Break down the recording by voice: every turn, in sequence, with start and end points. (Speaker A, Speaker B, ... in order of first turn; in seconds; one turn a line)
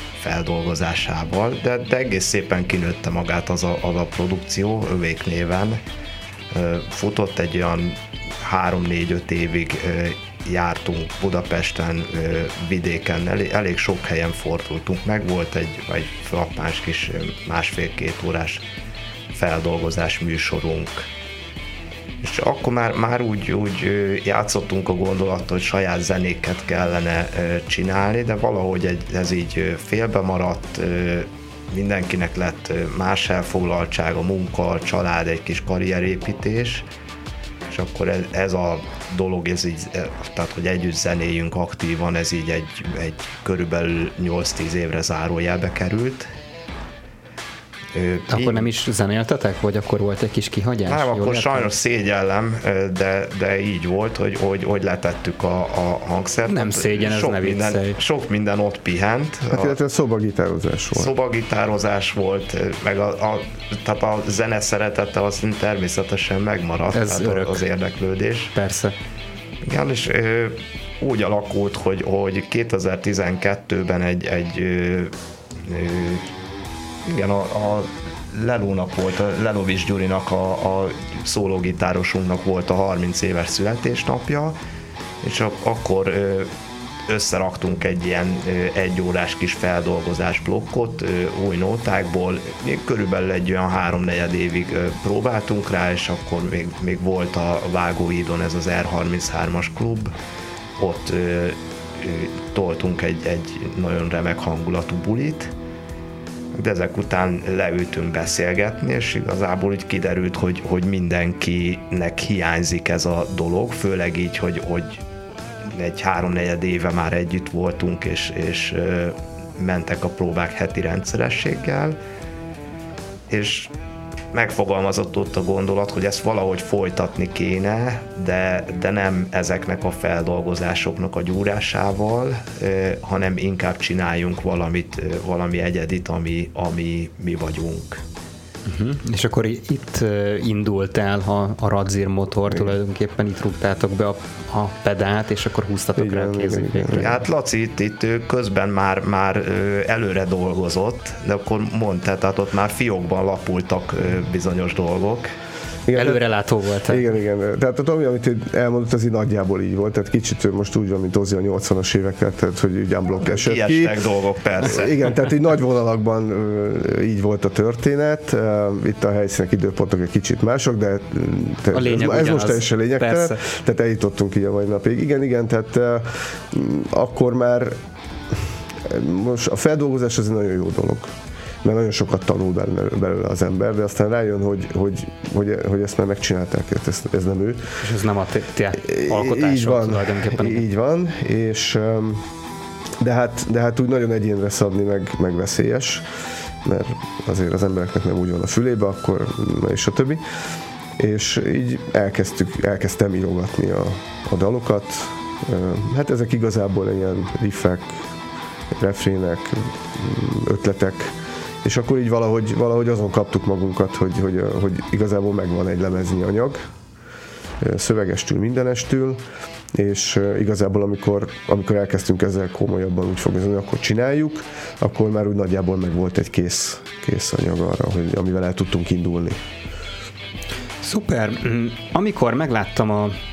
Speaker A: 0.2-5.8
Speaker A: 6.5-18.6
Speaker A: 19.3-21.1
Speaker A: 22.2-36.9
Speaker A: 37.7-46.3
Speaker A: 47.9-48.7
Speaker B: 48.3-51.7
Speaker A: 50.9-59.8
Speaker B: 56.5-58.0
Speaker C: 59.5-61.1
Speaker A: 60.9-68.5
Speaker B: 66.9-67.6
Speaker B: 68.5-68.9
Speaker A: 69.6-75.1
Speaker A: 75.6-76.3
Speaker A: 77.0-84.6
Speaker A: 85.2-86.5
Speaker A: 87.1-100.1
Speaker A: 100.8-105.5
Speaker A: 106.5-115.0
Speaker A: 115.6-122.0
Speaker A: 123.3-123.7
Speaker A: 124.3-138.0
Speaker B: 138.7-147.1
Speaker C: 145.9-147.2
Speaker A: 146.9-155.3
Speaker C: 155.8-156.2
Speaker B: 155.9-157.0
Speaker C: 156.9-164.0
Speaker A: 163.3-165.0
Speaker C: 164.6-177.8
Speaker B: 171.7-173.4
Speaker C: 178.3-187.8
Speaker B: 187.8-190.7
Speaker C: 188.8-192.2
Speaker C: 193.0-200.2
Speaker C: 201.0-208.1
Speaker C: 208.7-216.7
Speaker C: 217.6-229.4
Speaker B: 230.8-233.1